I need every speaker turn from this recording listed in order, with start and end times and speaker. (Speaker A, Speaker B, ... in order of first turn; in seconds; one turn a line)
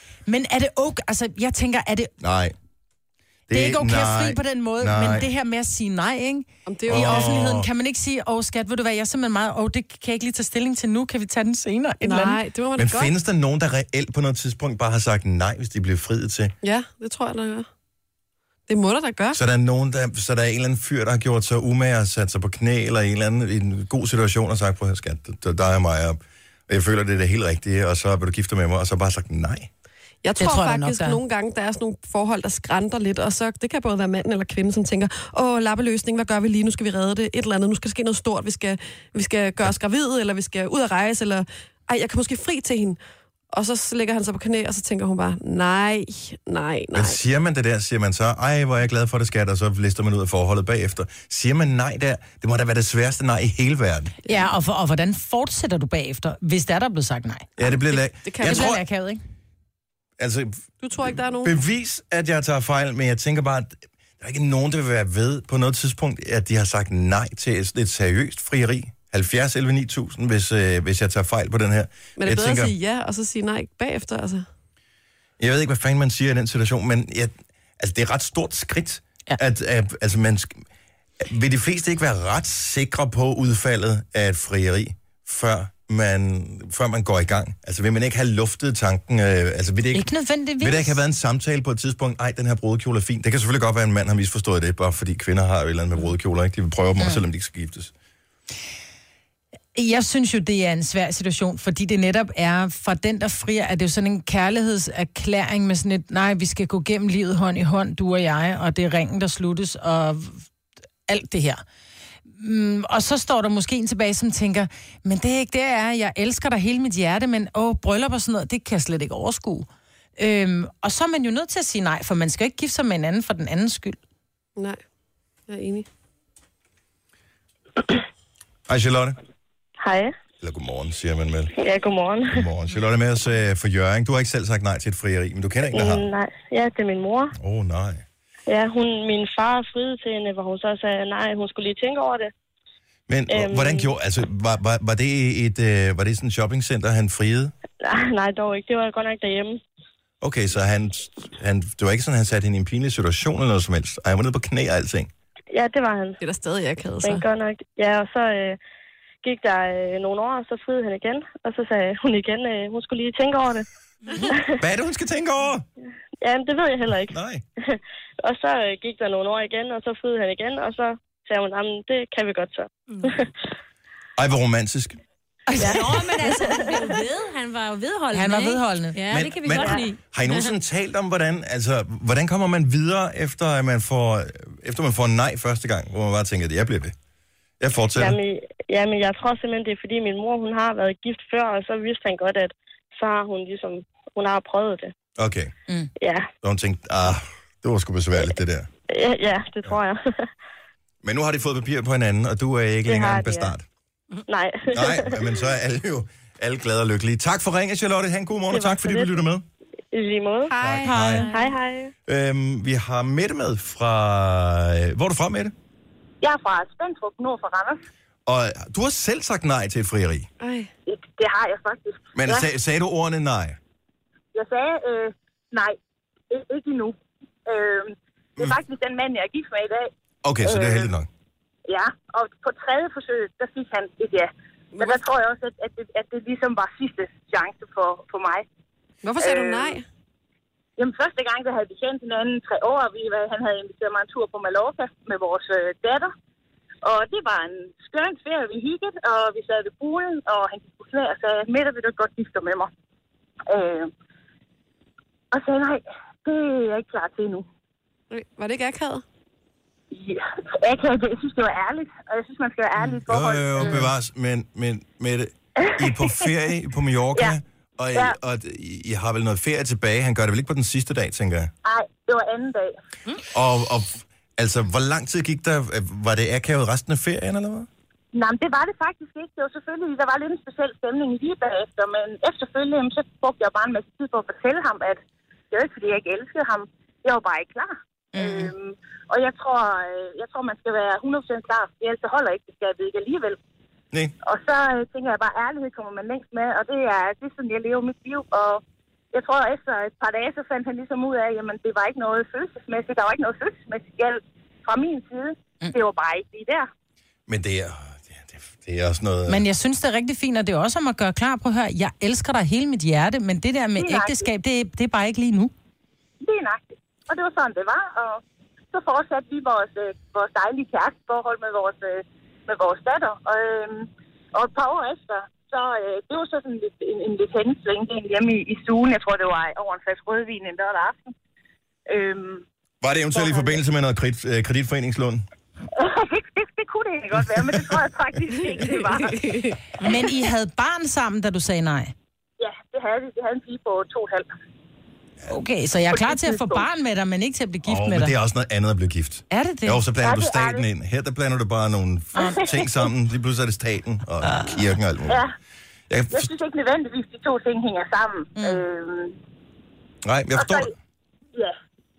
Speaker A: 0.3-2.1
Speaker B: 2.2-2.5
Speaker B: 3.5-5.3
Speaker A: 3.5-12.4
Speaker C: 6.7-7.4
Speaker B: 6.9-7.7
Speaker C: 12.0-13.1
Speaker B: 12.8-16.5
Speaker C: 16.6-17.7
Speaker C: 18.7-19.4
Speaker B: 19.3-29.7
Speaker C: 30.2-43.0
Speaker A: 30.4-31.2
Speaker C: 43.5-47.2
Speaker B: 46.9-54.2
Speaker A: 54.3-57.9
Speaker B: 57.6-58.8
Speaker C: 58.2-58.8
Speaker A: 58.4-59.2
Speaker B: 60.2-60.6
Speaker C: 60.8-61.6
Speaker B: 61.4-72.8
Speaker C: 72.2-74.5
Speaker B: 75.4-80.6
Speaker B: 81.2-97.9
Speaker A: 89.9-91.0
Speaker A: 99.8-110.5
Speaker A: 111.1-111.6
Speaker A: 112.4-124.0
Speaker C: 125.5-125.9
Speaker B: 128.7-129.2
Speaker D: 129.8-130.1
Speaker B: 130.4-131.6
Speaker D: 131.6-132.4
Speaker B: 132.3-136.1
Speaker D: 135.7-137.3
Speaker B: 137.4-138.0
Speaker D: 138.5-142.3
Speaker B: 143.1-147.5
Speaker D: 143.3-143.9
Speaker D: 147.8-149.6
Speaker B: 150.2-155.1
Speaker D: 155.5-156.2
Speaker C: 156.2-157.2
Speaker D: 157.0-158.6
Speaker D: 159.2-163.7
Speaker D: 164.2-164.5
Speaker B: 164.6-165.7
Speaker D: 166.2-167.1
Speaker B: 167.1-167.4
Speaker D: 167.7-173.3
Speaker E: 172.9-173.2
Speaker B: 174.2-175.0
Speaker A: 175.5-176.4
Speaker E: 175.6-180.5
Speaker D: 176.3-176.6
Speaker A: 178.1-179.1
Speaker B: 179.1-186.9
Speaker B: 187.6-188.2
Speaker D: 188.0-194.9
Speaker B: 195.2-195.5
Speaker D: 196.0-196.3
Speaker B: 196.4-198.7
Speaker D: 198.9-200.3
Speaker B: 201.0-203.6
Speaker D: 202.9-203.5
Speaker D: 204.3-205.2
Speaker B: 204.7-209.4
Speaker D: 208.5-209.2
Speaker D: 209.9-210.6
Speaker C: 210.5-211.0
Speaker B: 210.6-211.3
Speaker A: 210.8-211.4
Speaker E: 211.1-211.5
Speaker D: 211.3-211.9
Speaker B: 212.1-215.5
Speaker F: 216.2-217.8
Speaker B: 218.3-220.3
Speaker C: 220.4-220.7
Speaker F: 220.9-222.5
Speaker B: 222.2-223.6
Speaker F: 224.3-225.8
Speaker F: 226.3-229.9
Speaker B: 230.2-231.1
Speaker F: 230.4-230.9
Speaker F: 231.7-238.4
Speaker C: 234.8-235.0
Speaker C: 239.0-239.8
Speaker F: 239.2-239.8
Speaker F: 240.8-246.1
Speaker F: 246.8-252.7
Speaker F: 253.5-253.9
Speaker F: 255.3-257.5
Speaker C: 258.1-259.0
Speaker F: 259.9-263.8
Speaker B: 263.1-271.5
Speaker F: 265.6-266.3
Speaker F: 271.6-272.8
Speaker B: 273.3-277.7
Speaker F: 278.1-285.0
Speaker F: 285.5-293.4
Speaker A: 288.1-288.5
Speaker F: 294.2-298.6
Speaker F: 299.1-306.7
Speaker B: 307.3-309.4
Speaker A: 309.3-315.5
Speaker F: 313.8-314.3
Speaker F: 316.2-318.2
Speaker F: 318.7-331.1
Speaker F: 331.9-332.4
Speaker B: 332.8-335.2
Speaker F: 333.1-333.6
Speaker F: 335.8-339.4
Speaker B: 337.4-337.7
Speaker C: 338.4-339.6
Speaker A: 339.8-341.9
Speaker F: 342.4-344.3
Speaker A: 345.3-348.2
Speaker F: 345.9-346.7
Speaker B: 347.6-355.2
Speaker A: 349.3-349.9
Speaker F: 350.0-350.6
Speaker A: 352.1-352.5
Speaker A: 354.3-354.6
Speaker F: 355.1-355.3
Speaker B: 355.9-356.3
Speaker F: 356.1-359.1
Speaker A: 358.4-358.6
Speaker B: 360.0-360.8
Speaker F: 360.3-360.7